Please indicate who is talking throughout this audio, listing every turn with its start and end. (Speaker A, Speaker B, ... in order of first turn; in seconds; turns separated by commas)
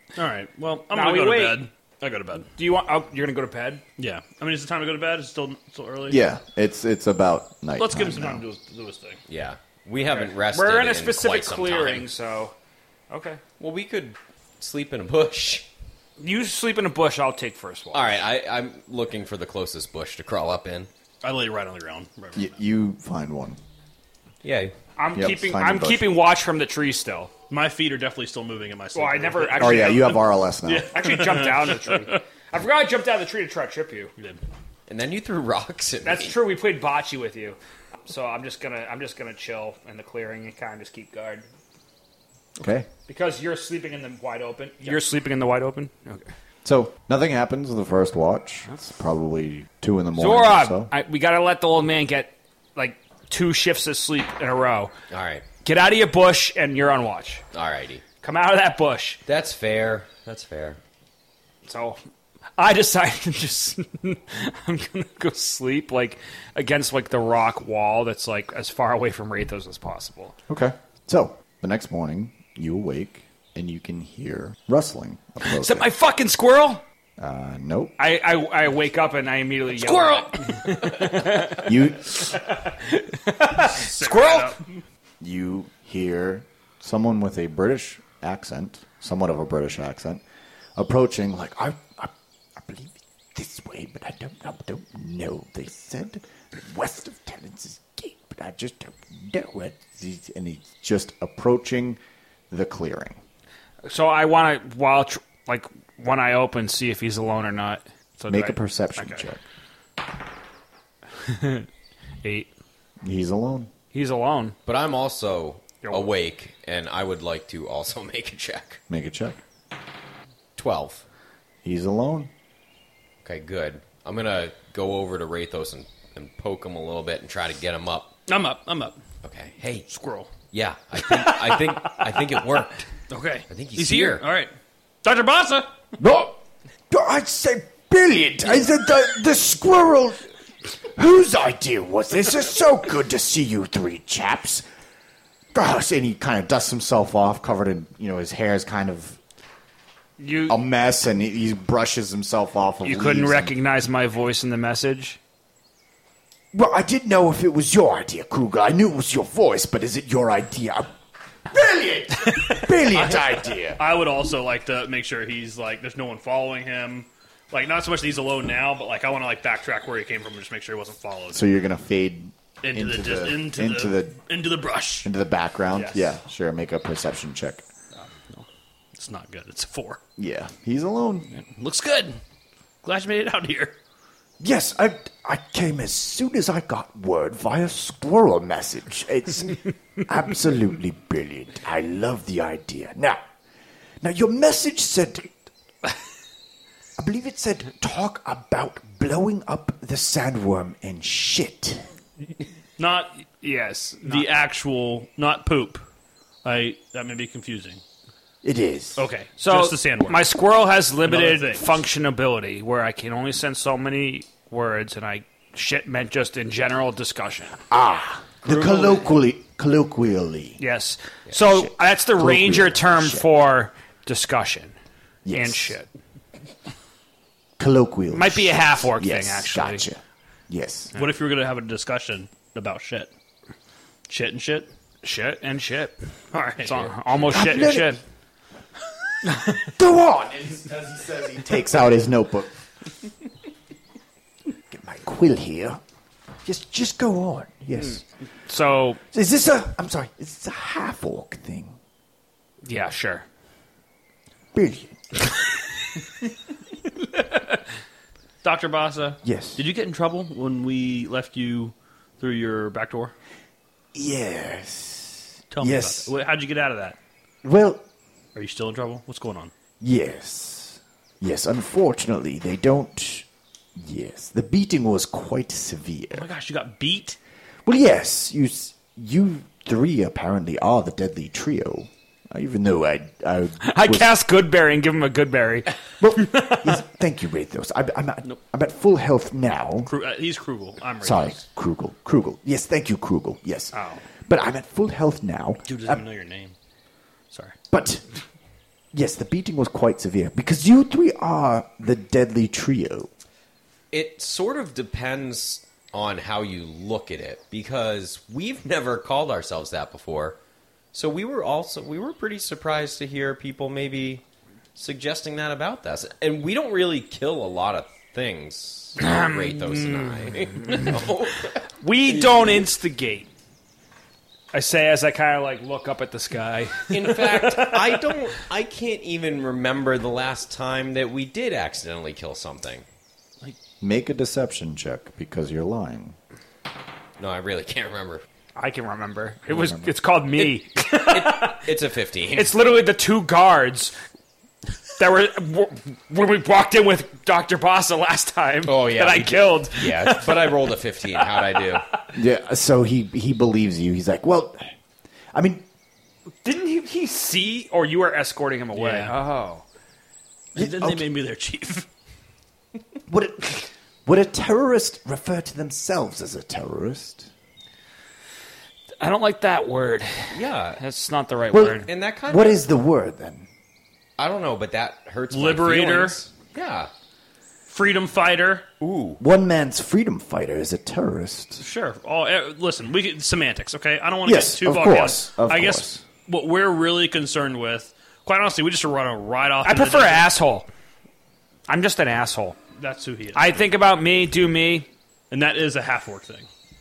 Speaker A: 0.2-2.5, Speaker B: 0.9-1.7, Speaker B: 2.6-3.8, Speaker A: 4.0-6.2, Speaker C: 6.1-8.4, Speaker A: 7.8-9.2, Speaker D: 9.3-12.1, Speaker B: 10.1-12.6, Speaker B: 13.1-13.4, Speaker D: 13.6-15.7, Speaker B: 16.2-18.2, Speaker D: 17.9-20.9, Speaker A: 21.2-22.6, Speaker C: 22.4-23.6, Speaker D: 24.4-24.7, Speaker B: 25.0-27.3, Speaker C: 25.1-26.1, Speaker A: 27.5-32.2, Speaker B: 28.9-30.2, Speaker C: 29.6-30.9, Speaker B: 30.9-34.1, Speaker D: 34.9-36.4, Speaker B: 36.0-41.5, Speaker C: 42.6-42.9, Speaker B: 43.1-46.3, Speaker C: 46.6-50.9, Speaker B: 50.2-54.9, Speaker D: 55.1-55.5, Speaker B: 55.6-57.4, Speaker D: 57.5-58.0, Speaker B: 58.2-59.2, Speaker D: 59.3-60.8, Speaker B: 61.6-62.0, Speaker B: 62.6-70.3, Speaker C: 70.5-75.9, Speaker B: 75.4-76.8, Speaker C: 77.2-78.0, Speaker B: 78.0-84.6, Speaker A: 79.7-80.9, Speaker C: 81.6-82.2, Speaker A: 83.6-84.8, Speaker C: 85.2-90.2, Speaker C: 90.8-102.0, Speaker C: 102.5-103.2, Speaker B: 103.9-109.2, Speaker C: 108.3-109.4, Speaker B: 111.2-111.7, Speaker B: 112.2-112.5, Speaker C: 113.0-113.7, Speaker B: 113.9-114.5, Speaker D: 114.7-118.8, Speaker B: 115.8-116.1, Speaker C: 118.9-119.4, Speaker D: 120.6-121.0, Speaker C: 121.6-122.3, Speaker D: 123.2-128.1, Speaker A: 128.3-129.0, Speaker D: 129.2-129.9, Speaker A: 129.9-130.3, Speaker D: 130.5-132.9, Speaker A: 131.0-132.2, Speaker A: 133.1-135.7, Speaker D: 133.5-134.2, Speaker C: 136.0-140.2, Speaker C: 140.8-144.6, Speaker C: 145.5-149.2, Speaker B: 150.2-150.6, Speaker C: 150.5-153.5, Speaker B: 152.8-155.2, Speaker C: 156.5-160.9, Speaker C: 161.5-163.8, Speaker A: 162.9-171.4, Speaker C: 171.3-174.2, Speaker A: 172.6-175.1, Speaker C: 175.0-177.7, Speaker A: 175.7-176.0, Speaker A: 177.9-180.0, Speaker C: 180.2-181.3, Speaker A: 181.3-182.2, Speaker A: 182.8-183.8, Speaker C: 184.4-193.2, Speaker C: 194.0-195.3, Speaker C: 197.0-201.9, Speaker A: 202.8-203.2, Speaker B: 203.4-204.3, Speaker A: 204.0-205.9, Speaker A: 206.4-207.8, Speaker C: 208.4-209.0, Speaker A: 209.0-210.2, Speaker B: 209.4-217.6, Speaker A: 211.1-211.8, Speaker C: 217.7-220.6, Speaker A: 218.5-219.1, Speaker B: 220.6-224.7, Speaker C: 221.4-223.3, Speaker C: 225.2-225.8, Speaker B: 225.3-225.9, Speaker C: 227.6-230.9, Speaker B: 228.1-229.9, Speaker A: 230.9-233.1, Speaker A: 234.1-234.7, Speaker B: 235.0-236.0, Speaker A: 236.3-237.0, Speaker B: 236.6-238.0, Speaker C: 237.3-238.0, Speaker B: 239.3-239.6, Speaker C: 239.6-242.5, Speaker C: 244.7-245.8, Speaker C: 246.4-248.0, Speaker B: 247.8-249.0, Speaker C: 249.1-251.8, Speaker B: 252.6-253.3, Speaker C: 254.5-255.0, Speaker A: 258.4-263.1, Speaker C: 259.2-259.7, Speaker C: 263.9-266.1, Speaker A: 265.5-267.0, Speaker C: 267.4-267.9, Speaker A: 268.4-269.5, Speaker C: 269.8-276.3, Speaker A: 276.1-277.2, Speaker C: 277.6-284.1, Speaker B: 283.6-286.8, Speaker C: 286.0-289.9, Speaker A: 289.9-291.4, Speaker C: 291.0-296.0, Speaker B: 293.7-294.0, Speaker A: 295.7-296.6, Speaker A: 297.3-297.6, Speaker C: 297.7-298.0, Speaker C: 298.9-303.1, Speaker D: 303.9-310.4, Speaker D: 310.9-314.2, Speaker D: 314.8-322.6, Speaker B: 319.0-321.0, Speaker B: 321.8-323.3, Speaker B: 324.5-328.0, Speaker D: 326.9-332.9, Speaker C: 333.8-336.2, Speaker D: 337.2-338.2, Speaker B: 338.6-341.6, Speaker C: 339.5-339.9, Speaker D: 341.0-342.5, Speaker B: 342.4-343.9, Speaker B: 345.0-350.6, Speaker D: 348.7-351.9, Speaker B: 351.2-352.0, Speaker C: 352.1-354.6, Speaker C: 355.3-355.6, Speaker B: 356.4-359.6, Speaker A: 358.8-359.2, Speaker A: 360.5-361.9, Speaker C: 360.6-361.1, Speaker C: 363.1-367.3, Speaker B: 369.0-371.9, Speaker D: 370.3-370.8, Speaker C: 371.5-373.5, Speaker D: 371.9-372.6, Speaker D: 374.2-376.9, Speaker A: 375.3-376.2, Speaker A: 377.7-378.7, Speaker D: 378.8-379.2, Speaker C: 379.2-381.6, Speaker A: 381.6-390.3, Speaker C: 384.2-386.0, Speaker B: 389.6-390.7, Speaker B: 391.7-392.6, Speaker A: 392.8-393.4, Speaker B: 393.3-394.9, Speaker A: 395.3-396.5